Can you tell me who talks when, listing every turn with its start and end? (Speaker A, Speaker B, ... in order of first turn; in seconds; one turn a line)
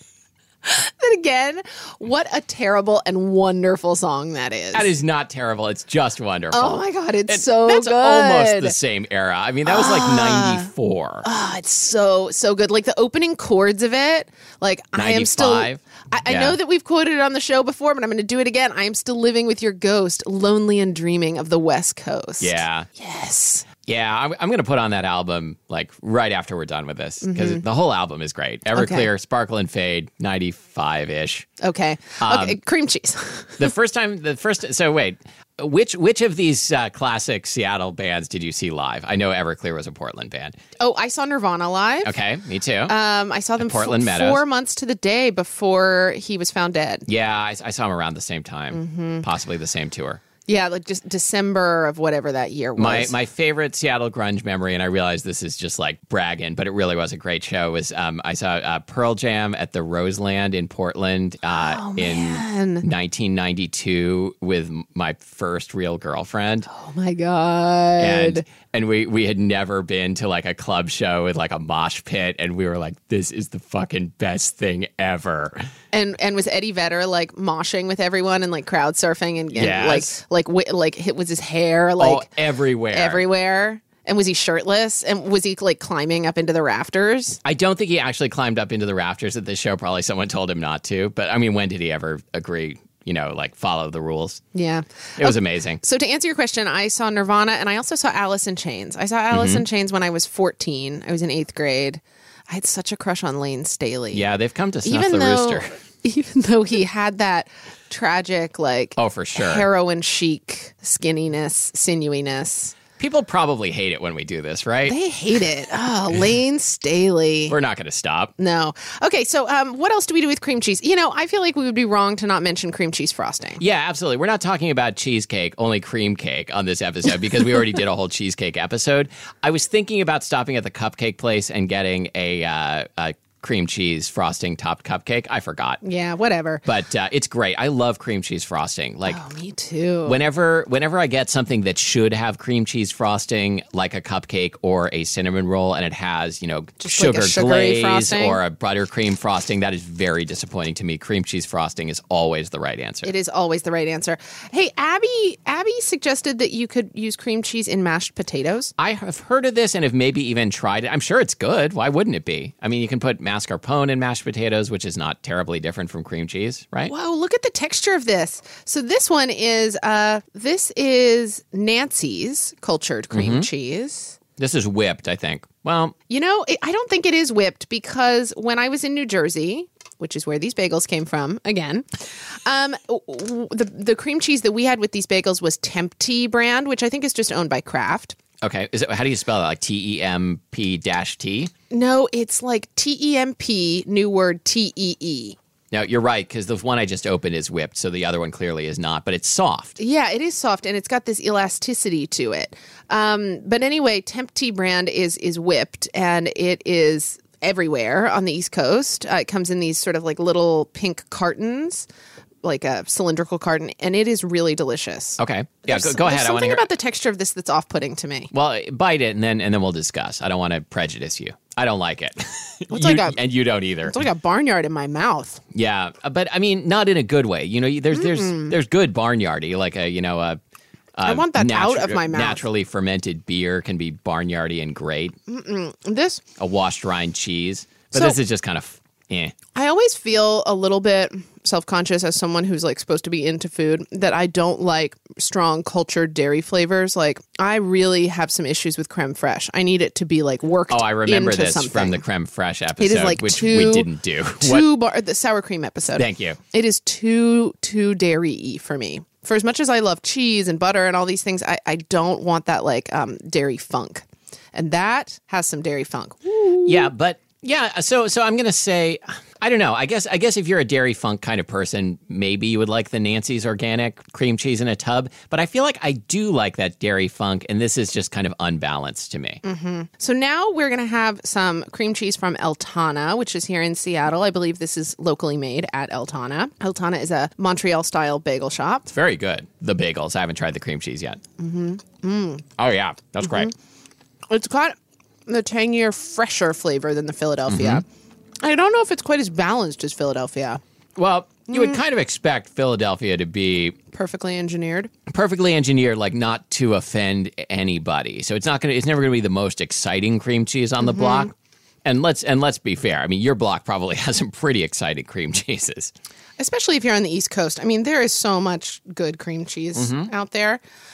Speaker A: 0.6-4.9
Speaker B: 4.7-11.3
Speaker A: 6.5-8.8
Speaker A: 9.7-10.7
Speaker A: 11.2-23.7
Speaker B: 14.9-16.6
Speaker B: 22.4-22.9
Speaker B: 23.8-31.5
Speaker A: 27.2-27.6
Speaker A: 28.7-29.1
Speaker A: 31.6-33.7
Speaker B: 32.2-32.6
Speaker B: 33.6-40.6
Speaker A: 40.8-42.2
Speaker B: 42.0-42.9
Speaker A: 42.9-47.1
Speaker B: 43.6-44.4
Speaker B: 47.1-50.2
Speaker A: 48.7-49.3
Speaker A: 50.5-53.1
Speaker B: 52.8-66.7
Speaker A: 61.5-62.9
Speaker A: 66.7-68.5
Speaker B: 68.0-75.7
Speaker A: 75.9-82.3
Speaker B: 79.5-80.2
Speaker B: 82.0-83.2
Speaker A: 82.8-87.4
Speaker B: 87.4-94.4
Speaker A: 94.5-104.3
Speaker B: 95.2-95.8
Speaker B: 99.3-99.6
Speaker B: 104.1-105.7
Speaker A: 104.8-112.8
Speaker B: 109.0-109.7
Speaker B: 113.0-115.0
Speaker A: 114.9-117.6
Speaker B: 117.5-118.3
Speaker A: 118.4-123.6
Speaker B: 123.6-135.8
Speaker A: 135.8-136.6
Speaker B: 136.7-139.2
Speaker A: 139.1-140.2
Speaker B: 140.1-153.1
Speaker A: 146.8-148.4
Speaker A: 153.0-158.7
Speaker B: 158.8-166.9
Speaker A: 166.9-174.2
Speaker B: 173.1-173.5
Speaker B: 174.4-175.9
Speaker A: 176.1-188.2
Speaker B: 188.4-191.5
Speaker A: 191.7-195.4
Speaker B: 195.7-199.8
Speaker A: 199.8-211.9
Speaker A: 212.4-218.3
Speaker B: 215.2-216.7
Speaker B: 218.3-224.0
Speaker A: 222.7-223.2
Speaker A: 223.8-225.4
Speaker B: 225.5-230.4
Speaker A: 227.9-228.6
Speaker B: 231.0-235.2
Speaker A: 231.0-232.4
Speaker A: 235.3-236.2
Speaker B: 236.4-239.3
Speaker A: 237.9-238.2
Speaker A: 239.6-252.0
Speaker B: 250.7-254.7
Speaker A: 252.8-253.9
Speaker A: 254.4-266.9
Speaker B: 256.0-256.4
Speaker B: 266.7-279.4
Speaker A: 279.4-288.9
Speaker B: 288.9-291.2
Speaker A: 291.4-292.5
Speaker B: 292.6-293.5
Speaker A: 293.2-293.5
Speaker A: 294.3-294.8
Speaker A: 295.3-297.9
Speaker B: 297.5-297.8
Speaker A: 298.4-300.6
Speaker B: 301.0-303.8
Speaker A: 301.5-301.8
Speaker A: 303.9-304.9
Speaker B: 305.1-311.3
Speaker A: 310.8-311.3
Speaker B: 311.9-315.9
Speaker A: 316.4-320.6
Speaker B: 319.8-320.1